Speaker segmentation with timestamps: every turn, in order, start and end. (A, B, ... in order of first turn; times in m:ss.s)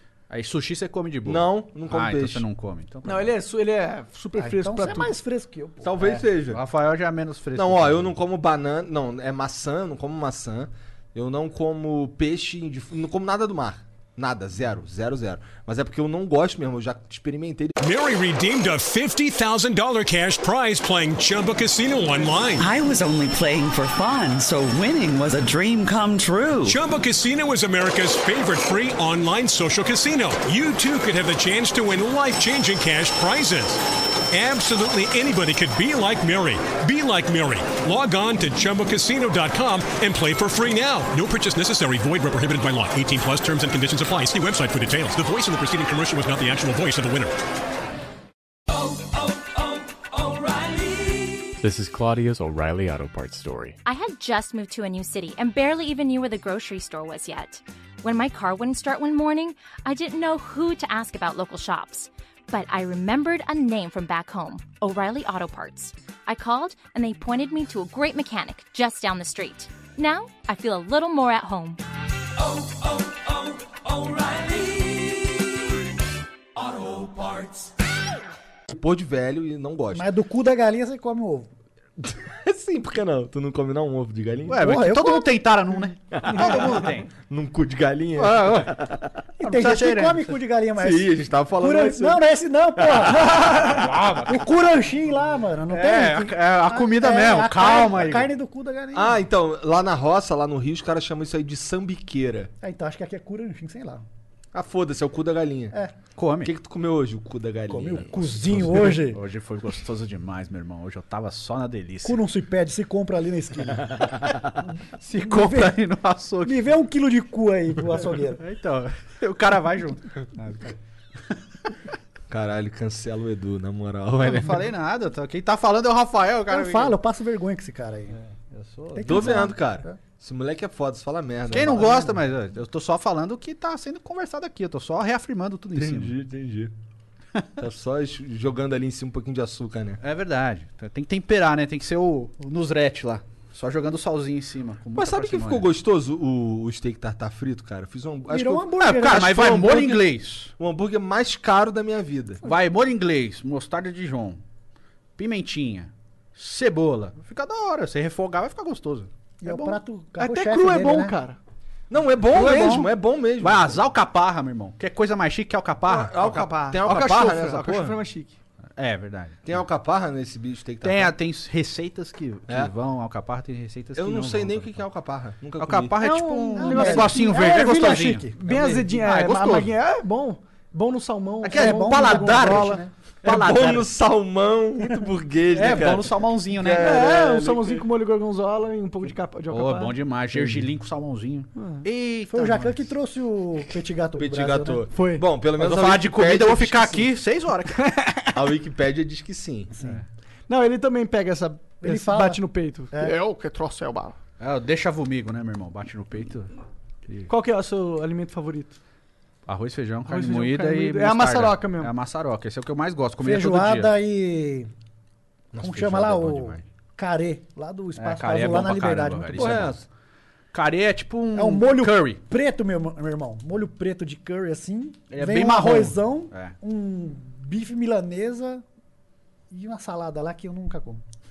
0:00.3-0:03.3 A
0:01.2-0:02.4 B
0:03.1-0:05.2 C
0:04.4-0:05.9 D
0:05.8-0:06.6 B
0:06.0-0:08.1 A
0:07.5-0:17.8 B
0:17.8-0:22.8 E
0:22.6-0:26.8 F
0:26.6-0:47.3 E
0:51.6-0:53.8 G
0:53.8-1:11.8 H
1:18.7-1:20.1 B
1:19.9-1:21.5 D
1:22.0-1:24.7 B
1:24.5-1:27.1 A
1:24.6-1:25.4 D
1:26.1-1:29.0 B
1:26.3-1:26.8 C
1:28.2-1:28.9 A
1:29.4-1:30.4 A
1:29.4-1:39.2 D
1:30.8-1:32.2 B
1:33.5-1:34.5 A
1:35.7-1:38.3 A
1:38.9-1:42.5 B
1:42.6-1:44.1 D
1:44.5-1:45.8 B
1:46.2-1:46.5 A
1:46.4-1:48.9 B
1:47.7-1:49.2 D
1:48.7-1:52.2 A
1:52.0-1:54.1 D
1:55.0-1:56.7 A
1:55.2-1:55.8 D
1:56.4-1:58.4 D
1:58.4-2:00.8 A
2:02.3-2:04.7 B
2:04.2-2:07.0 A
2:06.5-2:08.2 D
2:08.2-2:09.5 A
2:09.0-2:10.0 D
2:09.0-2:12.2 B
2:11.5-2:16.2 A
2:11.6-2:12.0 D
2:15.8-2:16.7 B
2:17.6-2:20.0 B
2:20.0-2:25.7 A
2:25.0-2:30.0 B
2:28.3-2:29.8 D
2:28.8-2:30.5 A
2:30.6-2:32.4 B
2:32.4-2:34.4 A
2:35.2-2:39.1 A
2:39.4-2:41.2 D
2:39.5-2:41.4 C
2:41.9-2:43.8 B
2:42.4-2:46.2 A
2:42.4-2:42.8 C
2:45.8-2:48.0 B
2:46.2-2:48.4 C
2:48.8-2:49.5 A
2:49.4-2:51.1 B
2:50.8-2:54.8 A
2:54.0-2:56.0 B
2:55.6-2:59.7 A
2:56.0-2:57.4 C
2:56.6-2:58.4 D
2:58.4-3:02.8 C
3:01.4-3:03.9 A
3:01.5-3:02.9 D
3:03.2-3:07.9 B
3:05.5-3:07.1 A
3:06.8-3:10.0 C
3:09.5-3:12.8 A
3:11.6-3:11.8 C
3:12.3-3:14.8 D
3:14.2-3:17.1 B
3:14.9-3:15.2 C
3:15.6-3:17.9 A
3:17.8-3:18.4 C
3:18.3-3:19.7 B
3:19.7-3:20.0 D
3:20.5-3:24.2 C
3:21.8-3:23.2 D
3:24.4-3:26.5 A
3:27.3-3:28.8 C
3:29.5-3:33.9 A
3:30.1-3:31.9 C
3:33.2-3:34.7 D
3:35.5-3:36.6 B
3:35.6-3:39.6 D
3:38.0-3:39.8 A
3:39.4-3:39.8 B
3:40.5-3:42.2 A
3:41.4-3:48.6 D
3:45.1-3:46.6 A
3:49.5-3:51.0 D